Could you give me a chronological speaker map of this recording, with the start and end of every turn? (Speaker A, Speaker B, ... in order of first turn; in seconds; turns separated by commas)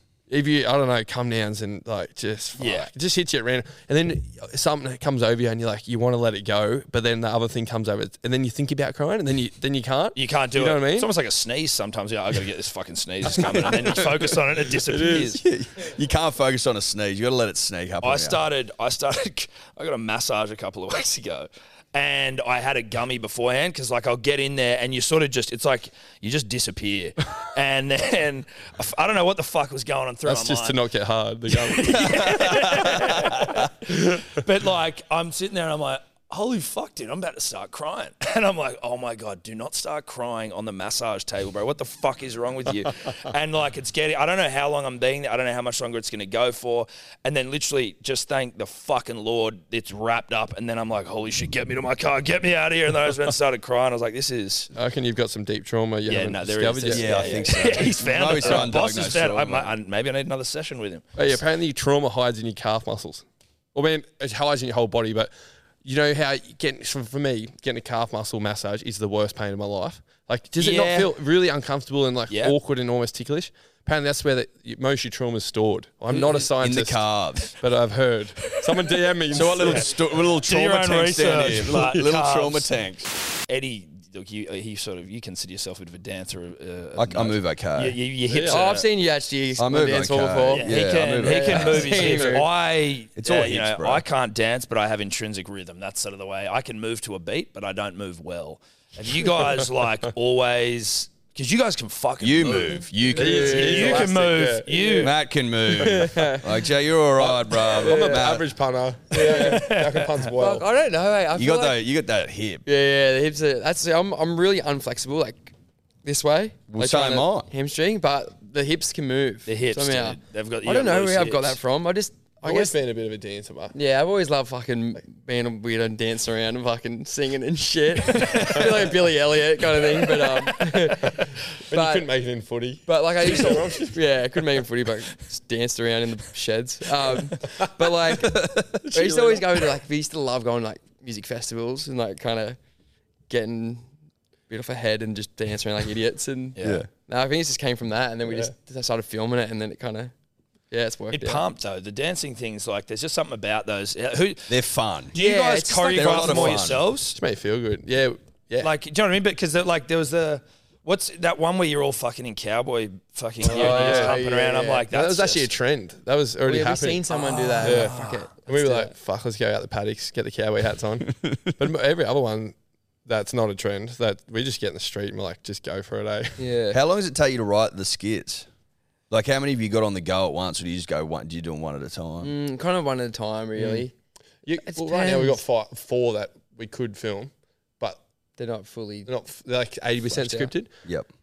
Speaker A: 0.3-11.1, Speaker B: 2.6-2.9, Speaker B: 10.1-15.4, Speaker A: 13.3-14.0, Speaker C: 13.4-13.8, Speaker A: 14.9-15.4, Speaker C: 15.2-18.4, Speaker B: 18.0-30.8, Speaker A: 30.2-32.4, Speaker B: 31.5-54.7, Speaker C: 32.0-33.6, Speaker A: 33.7-34.4, Speaker A: 54.7-57.5, Speaker B: 56.1-61.4, Speaker C: 56.9-59.7, Speaker A: 58.4-58.7, Speaker A: 61.1-65.3, Speaker A: 65.8-77.0, Speaker B: 70.6-71.1, Speaker B: 72.3-72.5, Speaker C: 76.3-77.6, Speaker A: 77.6-79.9, Speaker B: 78.8-82.7, Speaker C: 79.3-83.1, Speaker B: 83.5-88.8, Speaker C: 87.0-88.0, Speaker A: 88.3-88.7, Speaker D: 88.5-92.4, Speaker C: 89.6-92.1, Speaker B: 90.5-105.1, Speaker A: 92.0-92.4, Speaker C: 93.2-94.0, Speaker C: 102.2-103.9, Speaker D: 103.1-104.1, Speaker A: 103.2-105.0, Speaker D: 104.7-105.1, Speaker C: 105.0-108.5, Speaker D: 105.8-106.4, Speaker A: 107.2-110.6, Speaker D: 107.8-108.2, Speaker D: 109.1-109.7, Speaker B: 109.2-110.2, Speaker D: 110.3-111.8, Speaker C: 111.3-112.6, Speaker D: 112.7-122.7, Speaker C: 116.7-117.5, Speaker B: 119.5-121.6, Speaker A: 122.4-123.7, Speaker D: 123.7-132.1, Speaker B: 128.1-128.7, Speaker A: 130.0-134.0, Speaker D: 132.8-142.6, Speaker C: 138.1-139.6, Speaker D: 143.3-143.9, Speaker D: 144.5-150.1, Speaker B: 146.6-146.8, Speaker C: 146.6-146.9, Speaker D: 150.7-151.4, Speaker B: 151.1-154.5, Speaker C: 154.5-155.1, Speaker B: 155.1-157.2, Speaker D: 155.1-156.7, Speaker C: 155.9-156.8, Speaker A: 157.1-158.7, Speaker B: 158.6-165.5, Speaker A: 163.4-164.2, Speaker D: 163.4-164.8, Speaker A: 164.9-167.1, Speaker D: 166.4-168.9, Speaker B: 167.1-168.3, Speaker A: 167.6-176.4, Speaker D: 176.4-176.8, Speaker C: 176.7-178.5, Speaker C: 179.1-182.3, Speaker D: 182.2-183.9, Speaker A: 184.4-188.0, Speaker D: 184.6-185.4, Speaker D: 188.4-189.1, Speaker A: 189.1-190.7, Speaker D: 190.1-190.5